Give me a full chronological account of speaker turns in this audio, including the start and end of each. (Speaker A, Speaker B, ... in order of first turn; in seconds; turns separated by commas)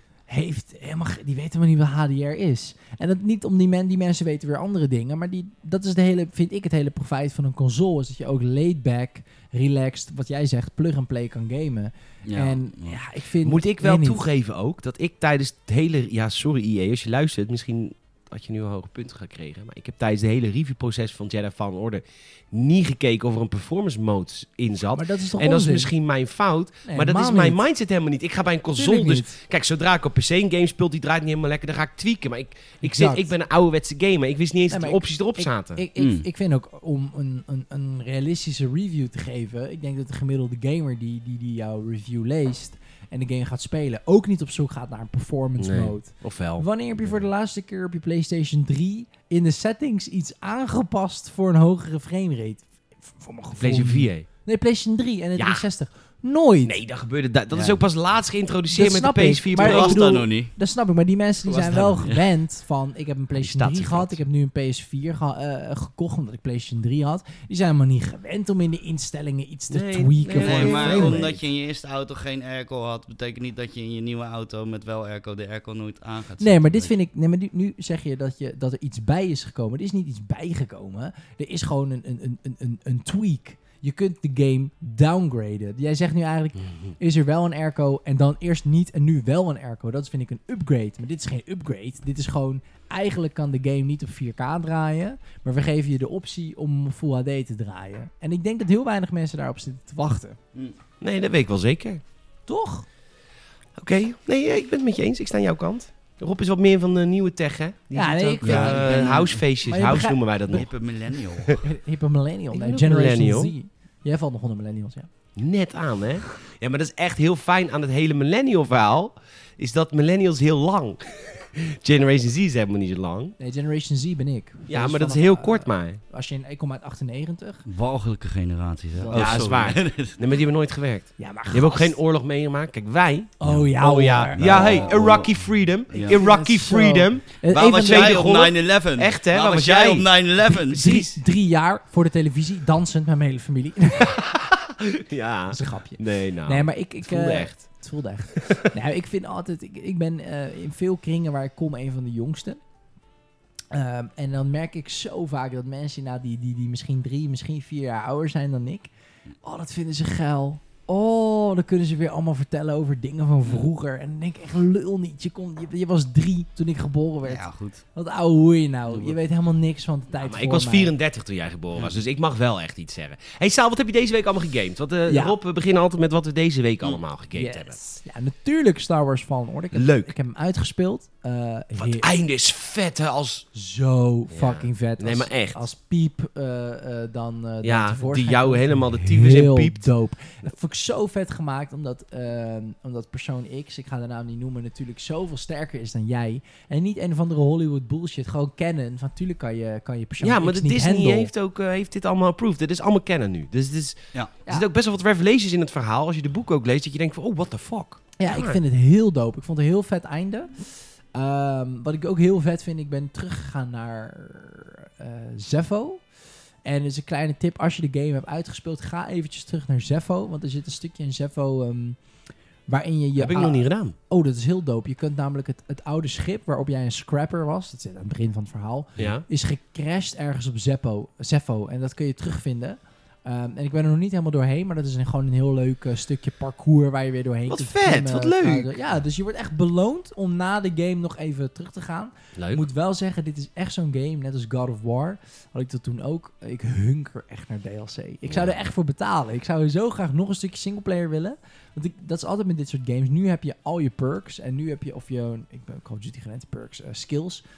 Speaker A: 0.3-14.2, Speaker B: 12.2-13.0, Speaker C: 13.4-35.8, Speaker A: 24.9-25.9, Speaker A: 26.8-27.6, Speaker A: 28.8-29.3, Speaker A: 32.8-33.3, Speaker A: 34.7-56.8, Speaker B: 36.0-36.2, Speaker C: 45.6-47.2, Speaker C: 53.5-54.3, Speaker C: 55.4-55.6, Speaker C: 56.6-60.0, Speaker B: 57.5-57.8, Speaker A: 58.7-71.4, Speaker B: 59.5-60.5, Speaker B: 61.5-62.2, Speaker C: 61.5-61.9, Speaker C: 63.4-64.2, Speaker C: 69.7-71.4, Speaker B: 70.3-76.9, Speaker A: 76.4-100.4, Speaker C: 101.0-102.0, Speaker A: 102.5-102.8, Speaker C: 103.8-110.7, Speaker A: 107.9-110.6, Speaker B: 108.4-109.4, Speaker B: 110.5-111.6, Speaker A: 111.6-115.1, Speaker C: 112.5-113.5, Speaker C: 115.3-123.3, Speaker A: 123.4-127.6, Speaker C: 124.7-126.0, Speaker B: 127.7-130.2, Speaker A: 129.0-129.5, Speaker C: 129.1-141.2, Speaker A: 131.2-132.0, Speaker A: 133.4-134.8, Speaker B: 134.3-135.4, Speaker B: 135.9-136.2, Speaker A: 136.0-138.2, Speaker B: 137.5-140.8, Speaker A: 140.7-144.2, Speaker C: 144.2-147.6, Speaker A: 145.5-152.6, Speaker A: 153.7-158.9, Speaker A: 159.4-170.9, Speaker B: 167.2-167.8, Speaker C: 170.1-177.8, Speaker A: 175.1-175.3, Speaker A: 177.3-182.1, Speaker C: 179.7-180.1, Speaker C: 181.7-183.4, Speaker A: 183.5-201.3, Speaker C: 184.3-185.7, Speaker C: 187.6-189.9, Speaker C: 200.2-208.6, Speaker A: 208.2-216.0, Speaker A: 216.6-222.0, Speaker A: 222.7-257.4, Speaker C: 223.2-223.9, Speaker C: 229.0-229.2, Speaker C: 237.5-238.7, Speaker C: 242.3-242.6, Speaker C: 248.2-248.6